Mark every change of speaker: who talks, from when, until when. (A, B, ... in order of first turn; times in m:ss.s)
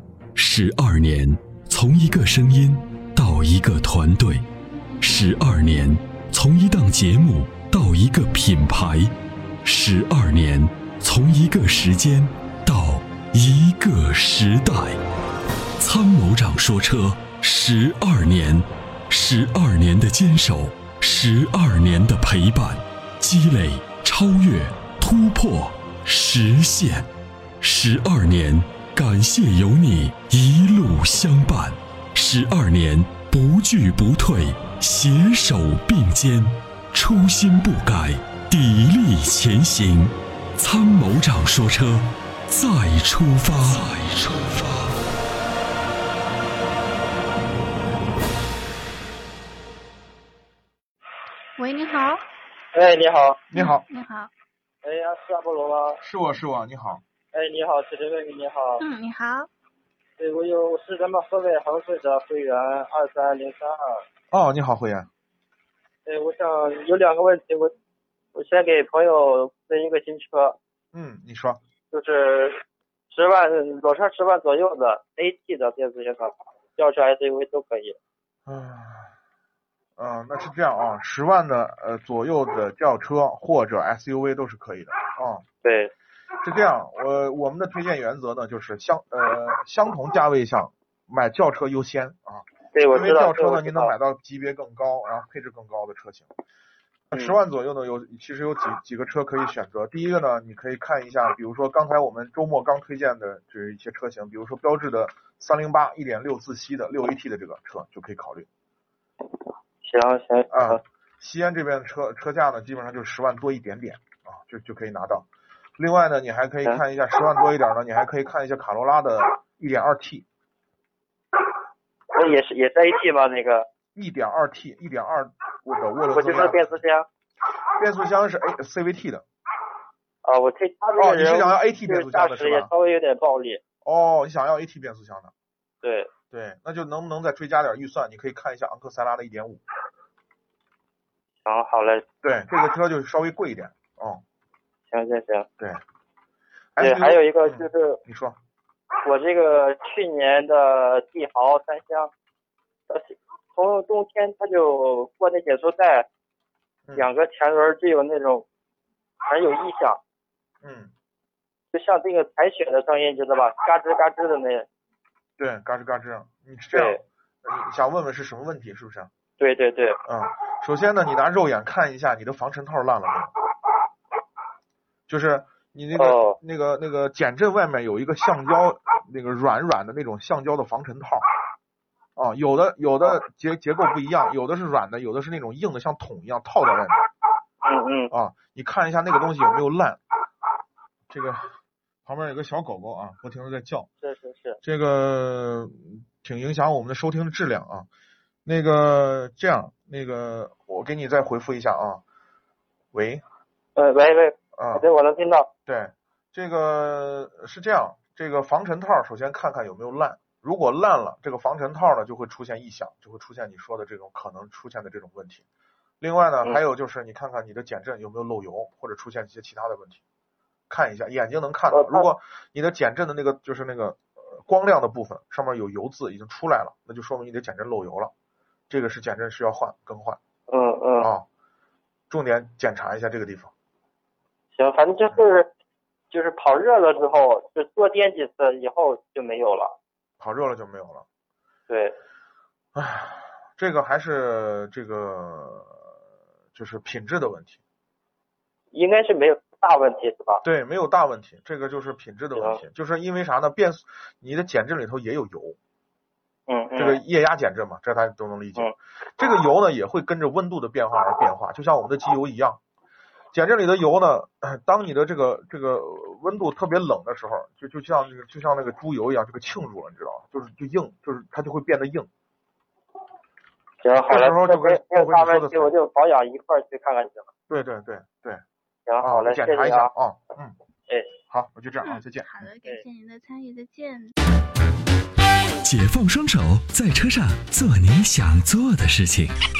0:00.3-0:04.4 A
0:05.0-0:09.1 A
0:09.6-0:15.0 A
0:15.8-0:27.1 A
0:27.6-0:44.9 A
0:51.6-0:52.2 B
0:52.7-0:53.4 C
0:53.5-0:53.8 D
0:53.5-0:54.3 B
0:54.8-0:56.0 C
0:56.0-0:57.0 D
0:57.3-0:58.8 C
0:58.8-0:59.5 B
1:00.2-1:04.0 C
1:04.3-1:05.1 D
1:06.0-1:07.7 C
1:08.3-1:10.6 C
1:10.9-1:11.6 D
1:11.9-1:18.0 C
1:18.4-1:19.1 D
1:20.0-1:25.4 D
1:25.6-1:25.9 C
1:26.4-1:36.3 D
1:32.7-1:33.9 C
1:37.1-1:48.5 D
1:49.8-1:50.8 C
1:50.5-2:00.2 D
2:02.1-2:03.7 C
2:03.9-2:06.8 D
2:06.1-2:07.1 C
2:07.8-2:09.2 D
2:10.2-2:13.6 C
2:11.0-2:12.7 D
2:13.8-2:15.3 D
2:15.8-2:16.1 C
2:16.3-2:19.6 D
2:21.4-2:22.0 C
2:22.2-2:24.2 D
2:24.9-2:25.5 C
2:26.8-2:28.4 D
2:26.8-2:28.0 C
2:29.0-2:32.1 C
2:32.9-2:36.1 C
2:36.8-2:37.1 D
2:37.0-2:38.4 C
2:39.3-2:40.0 C
2:40.6-2:40.9 D
2:41.7-2:44.7 C
2:45.4-2:49.1 D
2:46.7-2:47.0 C
2:49.4-2:50.0 C
2:50.0-2:53.3 D
2:55.1-3:01.2 D
2:56.0-2:56.4 C
3:02.2-3:07.0 D
3:07.6-3:08.1 C
3:08.1-3:10.0 D
3:11.1-3:11.5 D
3:12.0-3:13.9 D
3:14.0-3:14.6 C
3:14.6-3:17.9 D
3:18.4-3:22.0 D
3:22.9-3:23.2 D
3:23.7-3:25.5 C
3:24.6-3:24.8 D
3:25.7-3:35.4 D
3:36.0-3:40.0 D
3:40.7-3:48.1 D
3:41.7-3:42.1 C
3:48.7-3:50.2 D
3:50.5-3:51.1 C
3:52.1-3:53.5 D
3:54.5-3:55.5 C
3:56.1-3:59.7 C
4:00.2-4:01.0 D
4:01.7-4:01.9 C
4:02.7-4:05.8 D
4:06.5-4:07.6 D
4:08.7-4:10.4 C
4:10.4-4:15.6 D
4:12.4-4:12.6 C
4:16.5-4:17.0 C
4:16.8-4:22.6 D
4:23.3-4:32.1 D
4:33.8-4:37.3 C
4:34.1-4:35.7 D
4:37.5-4:38.4 D
4:38.8-4:39.9 C
4:39.0-4:40.6 D
4:40.9-4:41.1 C
4:41.3-4:42.4 D
4:41.8-4:44.1 B
4:45.6-4:49.4 A